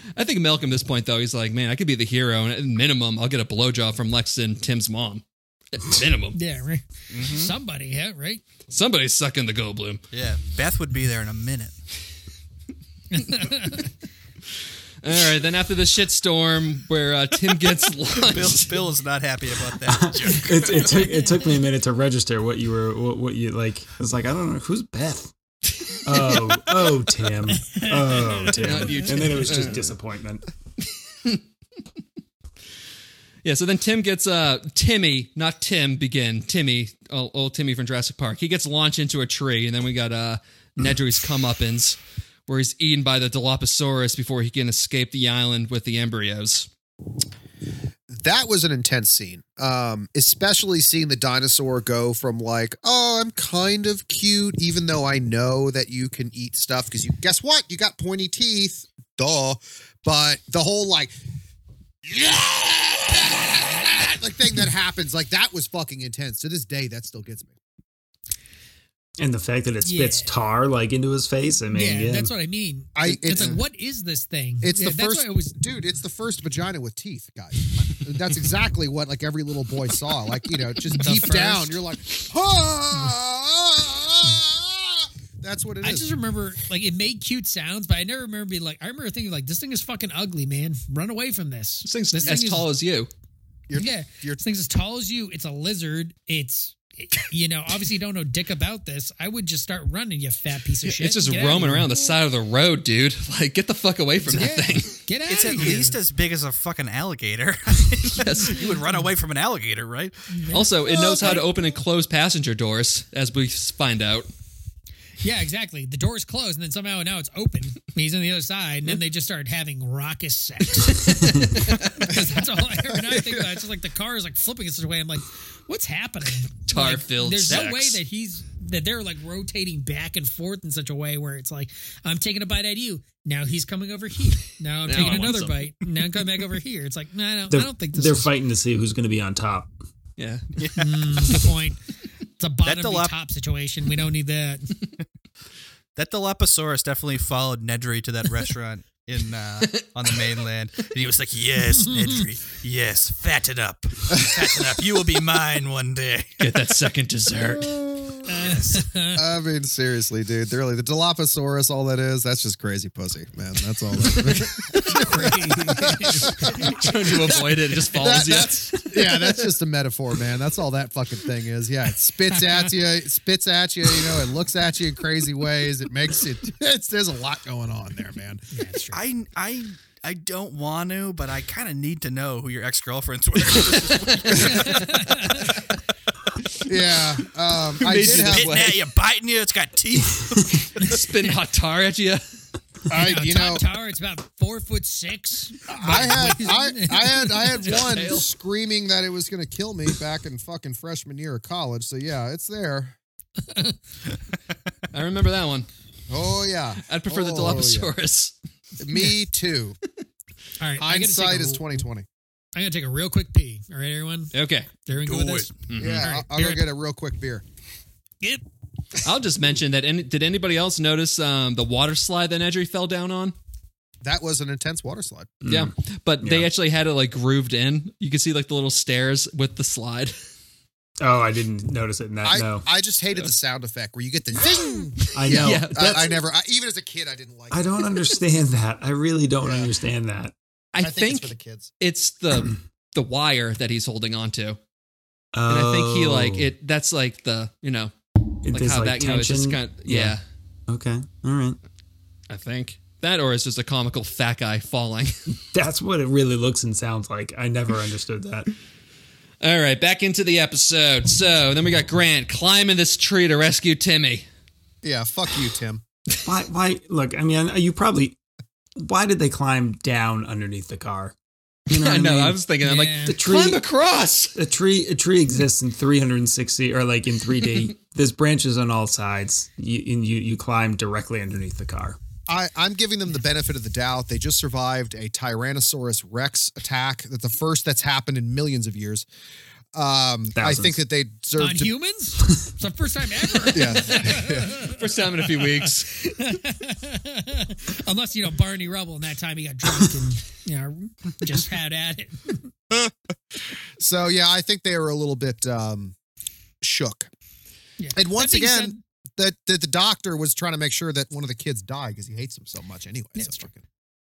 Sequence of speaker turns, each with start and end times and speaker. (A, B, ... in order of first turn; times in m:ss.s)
0:00.2-0:06.4 A
0:06.4-0:08.4 B
0:07.1-0:07.6 C
0:08.7-0:10.0 A
0:10.1-0:11.8 C
0:13.1-0:13.9 B
0:15.0-0:18.9 A
0:18.1-0:21.0 C
0:19.9-0:25.3 D
0:25.8-0:26.6 A
0:26.0-0:30.5 D
0:27.7-0:29.6 B
0:28.6-0:29.9 A
0:33.4-0:46.7 A
0:48.1-1:01.1 E
1:02.0-1:07.5 E
1:09.2-1:12.3 D
1:09.8-1:10.3 B
1:11.7-1:15.6 B
1:13.0-1:13.6 E
1:13.3-1:13.6 A
1:14.6-1:26.1 E
1:20.9-1:21.8 B
1:25.8-1:32.7 B
1:31.8-1:33.1 A
1:33.7-1:34.4 E
1:33.8-1:41.9 B
1:40.8-1:45.0 A
1:44.3-1:46.0 B
1:45.3-1:50.5 C
1:48.1-1:48.6 A
1:48.4-1:48.7 B
1:50.3-1:50.7 B
1:50.5-1:54.3 A
1:50.9-1:51.4 E
1:55.2-2:18.3 B
2:00.9-2:02.2 A
2:02.9-2:03.3 E
2:06.7-2:08.0 A
2:14.8-2:15.6 A
2:17.5-2:19.7 D
2:20.2-2:20.4 A
2:20.6-2:21.4 C
2:20.8-2:21.8 B
2:22.4-2:24.8 B
2:22.6-2:23.1 C
2:26.0-2:36.4 C
2:29.6-2:30.1 A
2:31.8-2:32.2 B
2:36.4-2:37.7 A
2:37.6-2:46.9 E
2:38.3-2:39.2 B
2:44.2-2:45.0 A
2:44.9-2:47.3 B
2:45.7-2:49.3 A
2:48.0-2:58.4 E
2:58.5-2:59.0 B
2:58.9-3:05.1 C
3:03.6-3:05.0 A
3:04.4-3:05.6 B
3:06.7-3:08.6 E
3:07.8-3:08.8 A
3:08.0-3:10.9 C
3:10.8-3:12.2 A
3:12.9-3:13.6 E
3:12.9-3:18.1 B
3:15.7-3:23.0 E
3:17.6-3:18.3 A
3:23.4-3:23.8 B
3:24.9-3:25.7 A
3:26.1-3:27.9 E
3:26.9-3:28.3 A
3:28.8-3:29.8 E
3:30.6-3:31.8 B
3:30.8-3:32.1 E
3:32.6-3:36.7 B
3:34.3-3:34.7 A
3:35.1-3:35.5 C
3:35.7-3:36.1 A
3:35.8-3:37.4 E
3:39.0-3:43.4 A
3:44.0-3:45.4 E
3:45.4-3:46.5 D
3:45.4-3:50.2 A
3:51.0-3:52.6 D
3:52.2-3:57.7 E
3:55.1-3:56.2 D
3:55.2-3:56.0 A
3:57.5-4:00.3 D
3:59.4-3:59.7 E
4:00.7-4:04.6 A
4:00.8-4:01.7 E
4:05.3-4:06.5 D
4:05.5-4:07.9 A
4:08.4-4:10.2 D
4:08.5-4:10.2 A
4:10.7-4:11.6 D
4:12.3-4:15.1 A
4:15.4-4:18.5 D
4:19.4-4:24.3 A
4:24.8-4:25.8 E
4:26.2-4:28.2 D
4:28.8-4:31.1 D
4:31.7-4:34.4 A
4:31.7-4:32.4 D
4:32.6-4:33.2 B
4:33.1-4:33.6 D
4:34.4-4:42.0 D
4:42.3-4:49.1 E
4:49.7-4:51.7 E
4:50.4-4:50.8 D
4:51.4-5:02.5 B
4:53.5-4:54.5 E
4:54.0-4:55.9 A
5:03.8-5:06.0 E
5:06.6-5:07.1 E
5:07.8-5:08.8 B
5:08.0-5:13.6 E
5:13.2-5:13.4 B